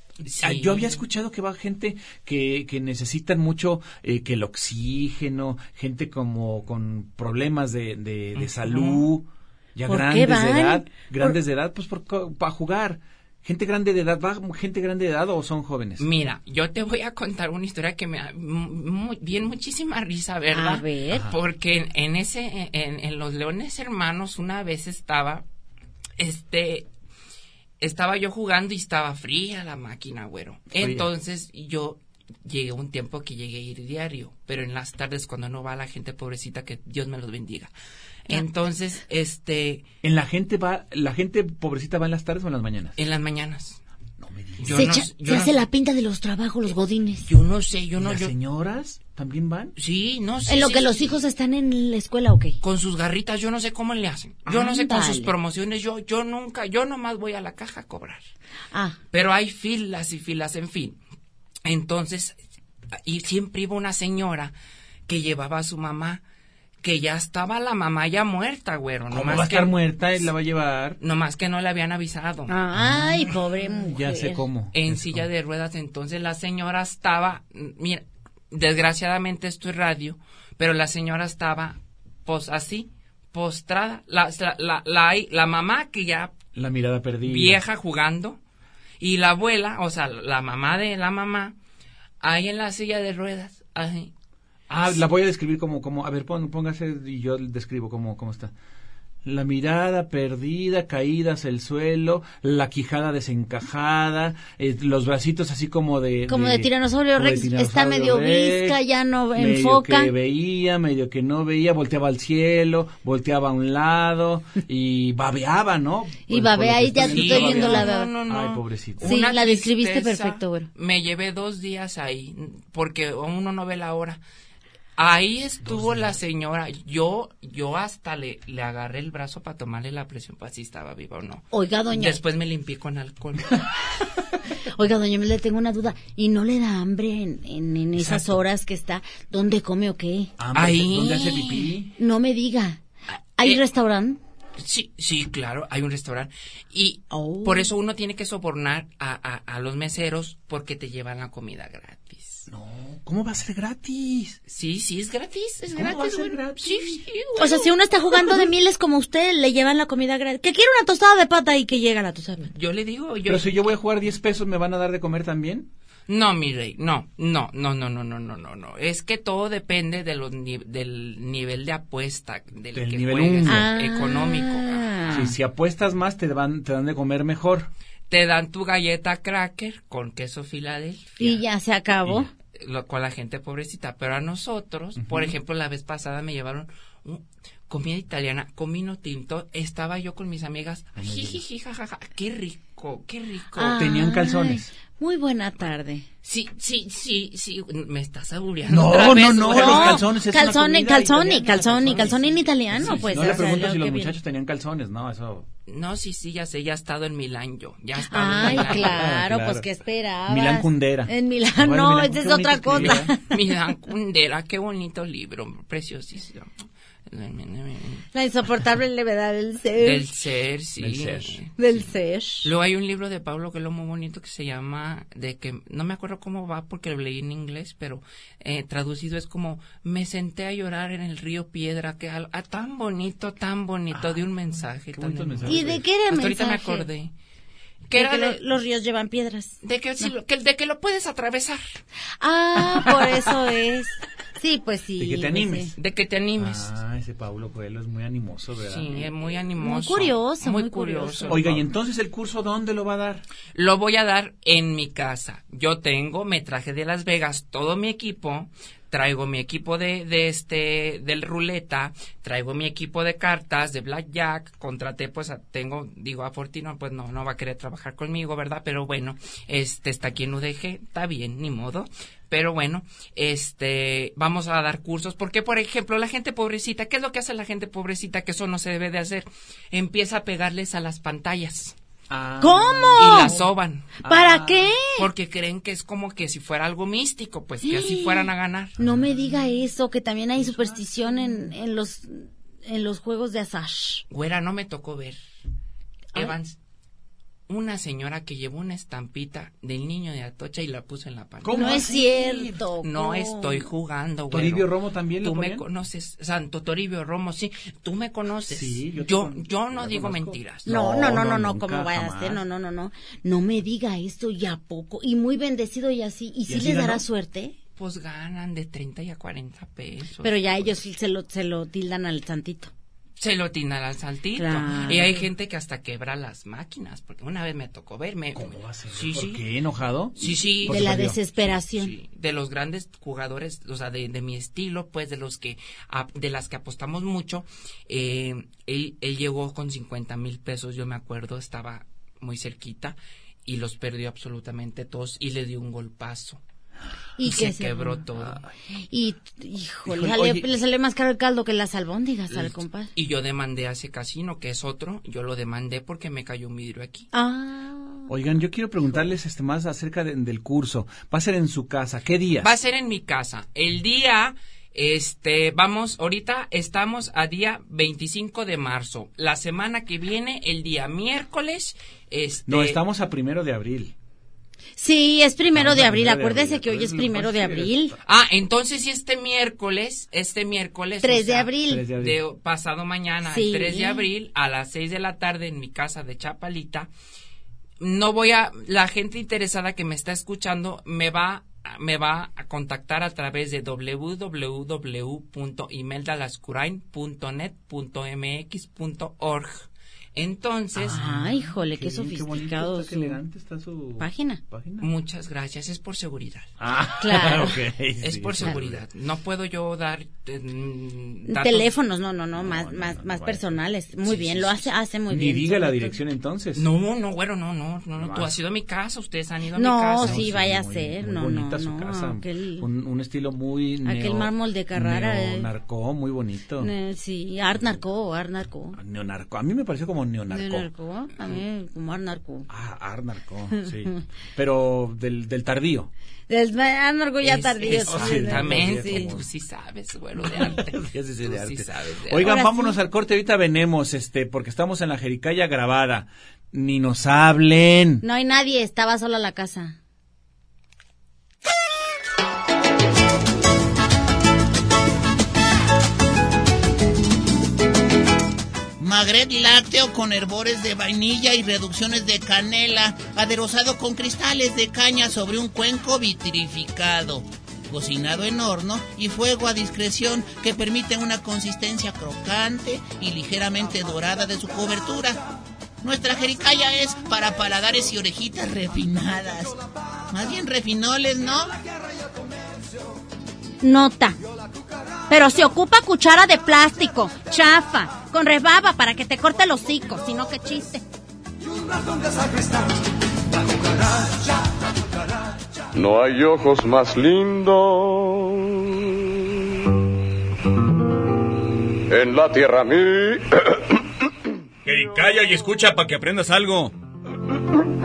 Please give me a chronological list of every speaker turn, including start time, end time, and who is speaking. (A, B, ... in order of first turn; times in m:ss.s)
0:00.2-0:16.0 A
0:00.2-0:01.0 B
0:08.3-0:09.1 B
0:09.8-0:11.4 C
0:16.0-0:25.4 B
0:20.5-0:21.3 C
0:21.1-0:21.4 A
0:26.2-0:26.9 B
0:27.8-0:37.7 B
0:30.8-0:31.1 A
0:38.3-0:39.8 B
0:40.0-0:43.0 A
0:43.0-0:43.8 B
0:44.2-0:45.0 A
0:44.6-0:45.6 B
0:44.7-0:47.3 C
0:47.3-0:48.3 B
0:48.0-0:49.7 A
0:49.8-0:51.2 B
0:50.5-0:52.6 C
0:52.6-0:58.2 B
0:54.5-0:55.3 C
0:58.7-0:59.0 C
0:59.1-1:01.0 B
1:01.6-1:02.4 B
1:03.0-1:04.5 B
1:05.1-1:06.2 B
1:06.8-1:09.8 B
1:09.1-1:11.0 A
1:11.0-1:12.5 B
1:12.5-1:14.4 C
1:12.8-1:13.4 A
1:13.9-1:15.3 A
1:14.7-1:26.4 B
1:26.5-1:27.6 A
1:27.2-1:28.4 B
1:29.0-1:31.5 B
1:32.2-1:34.1 B
1:34.7-1:38.5 A
1:39.2-1:48.8 A
1:46.3-1:50.1 C
1:49.3-1:59.1 A
1:56.3-1:58.1 C
1:57.0-2:04.2 B
1:59.0-2:00.7 C
2:05.0-2:13.6 B
2:05.6-2:06.2 A
2:11.5-2:12.2 C
2:14.6-2:20.3 C
2:17.9-2:18.4 A
2:20.4-2:21.9 A
2:20.5-2:21.7 B
2:22.0-2:22.8 C
2:23.4-2:24.2 C
2:24.6-2:32.5 B
2:27.1-2:27.7 C
2:32.5-2:34.4 A
2:34.5-2:38.4 B
2:35.7-2:37.0 A
2:37.4-2:42.5 C
2:42.5-2:43.8 B
2:43.2-2:45.7 A
2:46.1-2:55.2 B
2:52.7-2:53.7 A
2:53.4-2:55.3 C
2:55.1-2:57.7 A
2:58.1-3:01.4 B
3:01.2-3:02.3 C
3:02.5-3:13.8 B
3:05.0-3:05.3 A
3:11.0-3:11.4 A
3:13.5-3:16.0 C
3:13.8-3:14.7 A
3:16.2-3:20.0 B
3:18.6-3:22.1 A
3:19.3-3:24.2 C
3:21.5-3:23.5 B
3:22.7-3:25.5 A
3:25.7-3:29.0 B
3:28.1-3:33.4 C
3:28.3-3:29.7 A
3:30.3-3:33.1 A
3:32.8-3:36.5 B
3:37.1-3:38.0 B
3:38.1-3:40.1 C
3:39.8-3:41.5 B
3:40.8-3:41.4 A
3:41.6-3:42.5 C
3:42.4-3:57.1 B
3:53.9-3:55.8 A
3:55.4-3:56.9 C
3:57.9-3:58.4 B
3:57.9-4:00.1 C
3:59.6-4:01.6 B
4:02.2-4:05.7 C
4:05.0-4:05.7 A
4:05.8-4:06.7 B
4:06.4-4:09.1 A
4:08.7-4:11.6 B
4:09.6-4:11.5 C
4:11.3-4:13.2 A
4:13.5-4:41.7 B
4:42.1-4:43.5 A
4:42.4-4:43.4 C
4:43.0-4:43.9 B
4:44.0-4:44.7 A
4:44.0-4:45.1 C
4:44.9-4:48.8 B
4:47.6-4:54.0 C
4:48.8-4:49.4 A
4:50.4-4:51.2 A
4:54.1-4:55.2 B
4:56.1-4:56.6 B
4:57.5-5:01.9 B
5:01.4-5:02.6 A
5:01.5-5:03.7 C
5:02.8-5:10.7 B
5:04.3-5:05.7 A
5:08.5-5:12.4 A
5:10.6-5:17.6 C
5:16.5-5:17.0 A
5:17.8-5:20.8 B
5:20.2-5:22.7 C
5:23.2-5:29.4 B
5:24.4-5:25.2 C
5:28.3-5:31.2 A
5:30.2-5:30.8 B
5:30.6-5:31.9 C
5:31.5-5:46.4 B
5:47.2-5:48.0 C
5:47.2-5:48.4 B
5:48.2-5:48.5 A
5:48.9-5:52.9 C
5:49.8-5:50.5 A
5:52.3-5:57.1 B
5:57.1-5:58.1 C
5:58.1-6:02.5 A
6:02.4-6:12.8 B
6:12.5-6:13.9 A
6:14.8-6:17.9 C
6:15.5-6:18.0 A
6:18.0-6:26.9 B
6:21.0-6:21.9 C
6:21.6-6:22.2 A
6:23.2-6:24.0 C
6:27.8-6:41.0 B
6:40.8-6:44.9 A
6:40.9-6:43.2 C
6:44.0-6:44.4 C
6:44.8-6:46.5 B
6:46.6-6:48.8 A
6:47.0-6:47.6 C
6:48.0-6:51.7 B
6:51.3-6:56.0 C
6:52.3-6:53.6 A
6:54.0-6:54.7 B
6:55.1-6:56.6 A
6:56.6-7:00.3 B
6:58.0-6:58.4 A
6:59.5-7:02.7 C
7:00.0-7:06.7 A
7:03.8-7:05.5 C
7:06.6-7:08.8 C
7:08.7-7:10.7 A
7:10.3-7:12.5 C
7:12.5-7:15.9 A
7:13.6-7:14.0 C
7:16.3-7:19.2 C
7:17.2-7:22.3 B
7:17.8-7:19.3 A
7:20.2-7:28.0 A
7:22.2-7:22.8 C
7:28.0-7:29.8 C
7:38.8-7:55.2 D
7:55.8-7:59.6 D
8:00.1-8:01.6 D
8:03.6-8:04.2 C
8:05.1-8:10.8 C
8:15.7-8:18.8 E
8:21.9-8:23.8 E
8:24.6-8:26.7 F